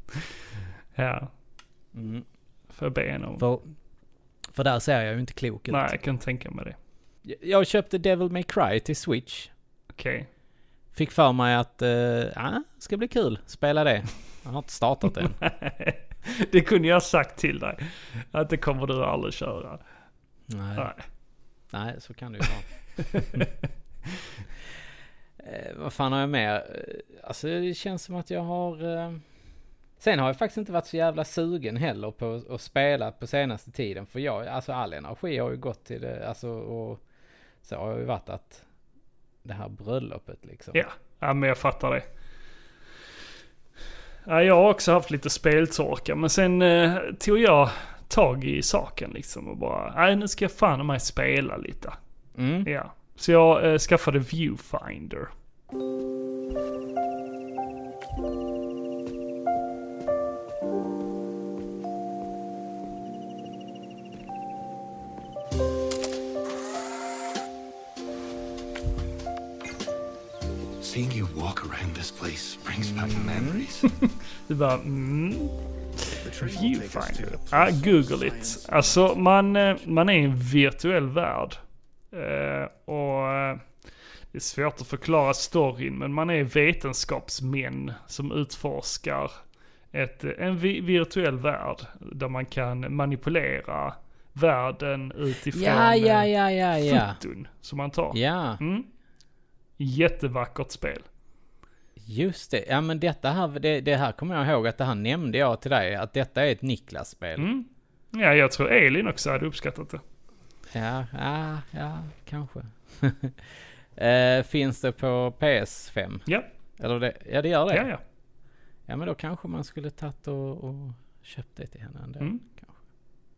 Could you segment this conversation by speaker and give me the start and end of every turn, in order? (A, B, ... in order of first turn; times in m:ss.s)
0:01.0-0:01.3 A
0:01.9-0:02.2 B
0:02.7-0:03.4 A
0:03.4-0:03.7 B
0:04.5-0:05.9 B
0:05.7-0:06.8 A
0:07.2-0:09.5 B
0:09.9-0:10.3 A
0:10.9-0:15.4 B
0:15.4-0:19.8 A
0:20.5-0:20.9 B
0:20.8-0:21.0 A
0:21.7-0:23.4 B
0:23.1-0:23.4 A
0:25.4-0:29.2 B
0:30.0-0:37.0 B
0:37.6-0:38.6 B
0:39.4-0:40.8 B
0:40.7-0:42.0 A
0:44.2-0:52.0 A
0:52.4-0:52.7 B
0:52.6-0:55.3 A
1:10.8-1:13.9 C
1:12.8-1:13.7 B
1:14.0-1:21.6 A
1:16.2-1:19.0 C
1:22.1-1:23.6 A
1:24.3-1:29.3 A
1:29.9-1:38.9 A
1:35.5-1:37.2 B
1:38.1-1:38.6 B
1:39.8-1:41.0 A
1:42.0-1:47.5 B
1:47.4-1:50.0 A
1:50.7-1:56.2 B
1:56.8-1:57.9 B
1:57.7-1:58.0 A
1:58.9-2:02.7 B